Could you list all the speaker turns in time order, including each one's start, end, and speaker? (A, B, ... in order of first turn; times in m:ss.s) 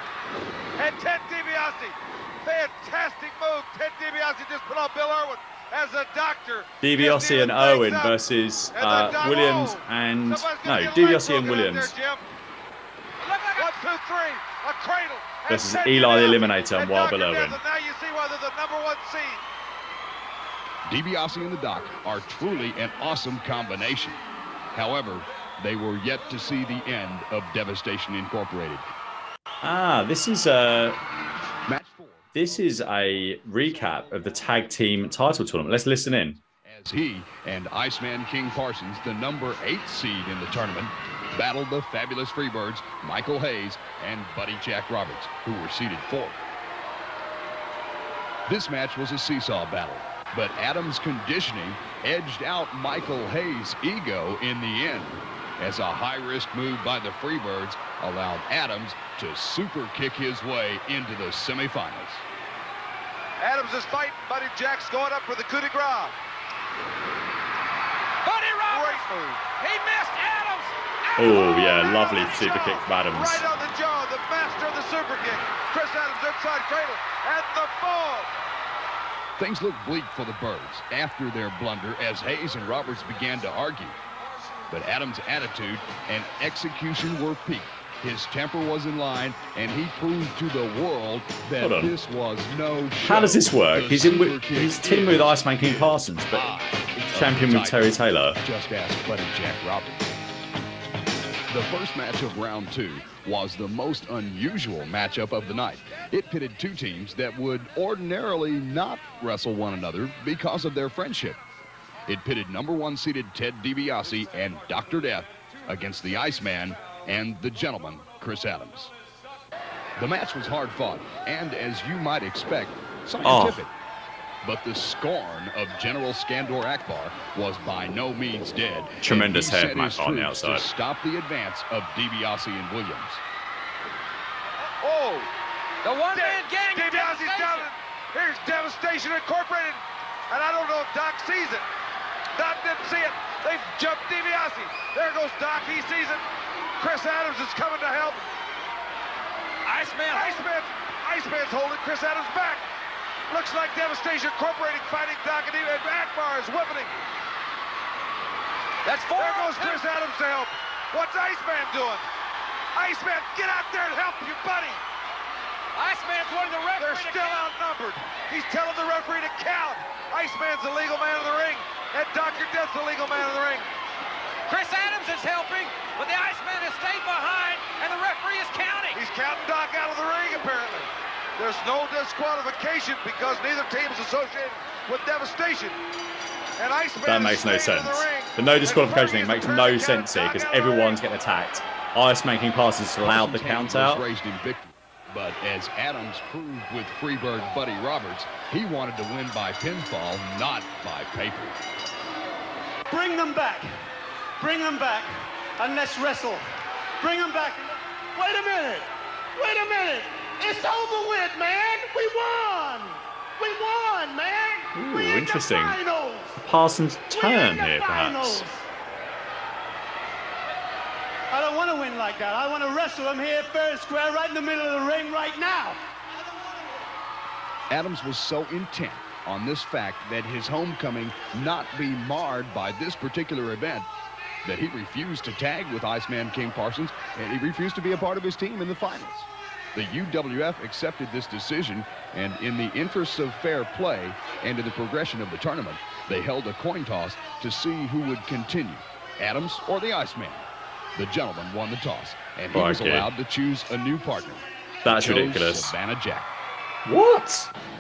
0:00.8-0:08.1 A
0:06.8-0:11.9 B
0:08.7-0:12.2 A
0:13.2-0:19.4 A
0:15.5-0:17.6 B
0:20.9-0:24.2 C
0:24.7-0:28.9 C
0:29.6-0:31.0 B
0:31.7-0:32.6 C
0:32.3-0:36.4 B
0:33.6-0:34.0 C
0:36.6-0:46.4 C
0:48.5-1:02.2 C
1:03.4-1:06.1 A
1:08.3-1:09.0 D
1:08.7-1:09.4 A
1:11.2-1:13.4 B
1:11.3-1:18.3 A
1:12.2-1:12.8 D
1:19.4-1:24.0 C
1:24.7-1:40.1 C
1:31.6-1:31.9 B
1:33.0-1:36.5 B
1:37.1-1:38.4 B
1:41.5-1:51.4 C
1:52.1-1:58.9 C
2:00.0-2:03.7 C
2:03.2-2:03.6 B
2:04.4-2:13.2 C
2:09.0-2:10.6 B
2:14.8-2:15.3 A
2:15.8-2:17.7 D
2:16.1-2:21.6 A
2:22.4-2:26.2 A
2:26.8-2:28.2 A
2:29.6-2:30.4 D
2:30.1-2:32.6 A
2:33.3-2:37.0 A
2:38.8-2:39.8 D
2:38.9-2:42.0 A
2:42.7-2:44.8 A
2:45.7-2:47.5 D
2:46.8-2:53.7 A
2:54.5-2:59.0 D
2:58.9-3:05.8 A
3:06.6-3:11.0 A
3:07.0-3:14.0 B
3:13.0-3:21.6 C
3:22.9-3:23.7 E
3:24.4-3:26.4 E
3:27.0-3:27.6 E
3:28.1-3:36.4 E
3:34.7-3:35.8 B
3:36.4-3:38.4 B
3:37.1-3:38.6 E
3:41.3-3:45.8 E
3:47.7-3:53.9 C
3:54.4-4:10.4 C
4:10.9-4:16.3 C
4:12.5-4:13.1 B
4:14.8-4:15.8 B
4:16.8-4:17.5 B